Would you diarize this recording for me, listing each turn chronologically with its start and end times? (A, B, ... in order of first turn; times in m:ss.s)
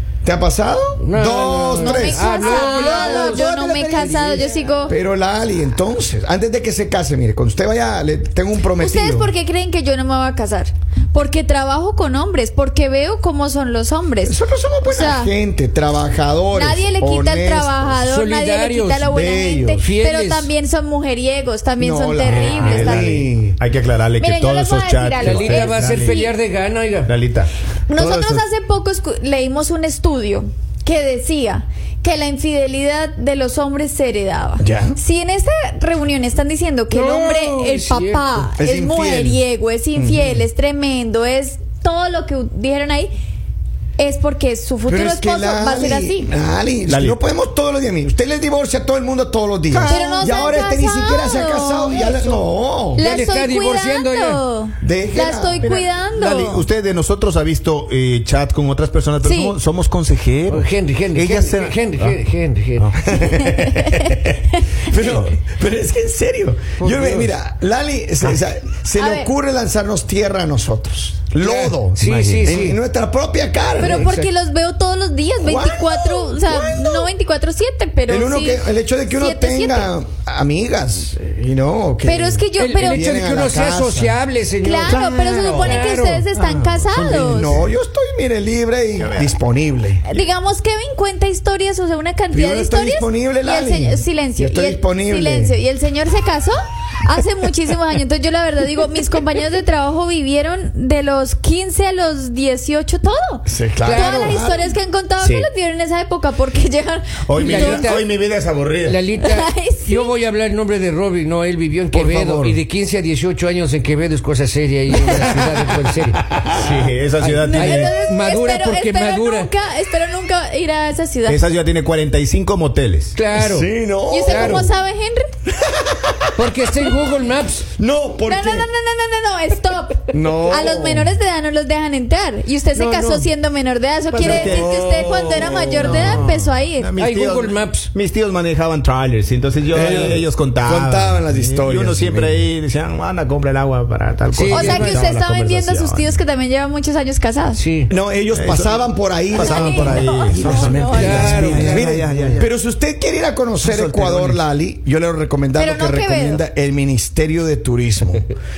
0:00.2-0:03.5 A
0:01.0-0:04.8 B
0:01.8-0:05.0 C
0:04.9-0:09.3 A
0:08.7-0:15.3 C
0:14.2-0:18.0 A
0:16.5-0:23.3 C
0:18.0-0:19.2 B
0:19.1-0:19.6 A
0:19.2-0:19.8 D
0:19.8-0:20.5 B
0:21.8-0:23.6 A
0:22.3-0:26.2 D
0:24.2-0:26.3 C
0:25.2-0:27.1 B
0:27.1-0:28.4 D
0:27.9-0:43.1 C
0:34.6-0:35.0 A
0:36.9-0:38.4 B
0:38.6-0:39.4 A
0:40.0-0:40.4 A
0:44.0-0:46.3 C
0:44.9-0:53.0 A
0:46.9-0:47.2 D
0:49.7-0:50.4 D
0:49.9-0:52.4 C
0:53.0-0:56.7 C
0:53.0-0:54.4 B
0:54.8-0:55.7 A
0:55.6-1:02.2 D
0:59.2-0:59.6 C
1:00.5-1:02.9 B
1:02.8-1:03.9 D
1:03.1-1:03.8 A
1:03.5-1:04.6 C
1:04.9-1:14.3 A
1:04.9-1:05.3 D
1:06.8-1:07.3 B
1:09.0-1:09.3 C
1:11.4-1:12.8 B
1:12.0-1:12.4 D
1:13.8-1:19.9 C
1:13.8-1:14.2 B
1:15.4-1:17.1 A
1:18.1-1:24.2 A
1:22.0-1:23.0 C
1:22.6-1:26.6 B
1:24.6-1:27.6 C
1:24.9-1:25.8 D
1:26.7-1:27.6 D
1:26.9-1:30.1 A
1:29.0-1:29.4 D
1:30.1-1:48.0 C
1:32.3-1:35.6 A
1:43.5-1:44.7 A
1:43.8-1:44.4 B
1:45.2-1:45.5 D
1:47.3-1:49.0 D
1:47.4-1:48.1 B
1:48.8-1:59.5 B
1:49.2-1:50.1 C
1:51.9-1:52.5 A
1:56.4-1:58.0 D
1:57.4-2:01.4 C
2:01.3-2:03.1 D
2:03.2-2:03.7 B
2:03.3-2:04.7 A
2:04.1-2:05.3 C
2:04.2-2:04.7 B
2:05.6-2:06.9 A
2:06.4-2:07.7 B
2:07.8-2:08.7 A
2:08.3-2:16.9 C
2:10.1-2:11.2 A
2:12.7-2:13.3 B
2:14.1-2:26.2 D
2:14.2-2:16.3 A
2:17.0-2:17.9 B
2:19.7-2:22.5 A
2:24.3-2:25.1 B
2:24.5-2:27.6 C
2:27.6-2:27.9 B
2:27.9-2:38.3 A
2:28.3-2:32.5 D
2:29.3-2:31.7 C
2:30.9-2:32.0 B
2:33.6-2:34.4 D
2:35.6-2:36.4 C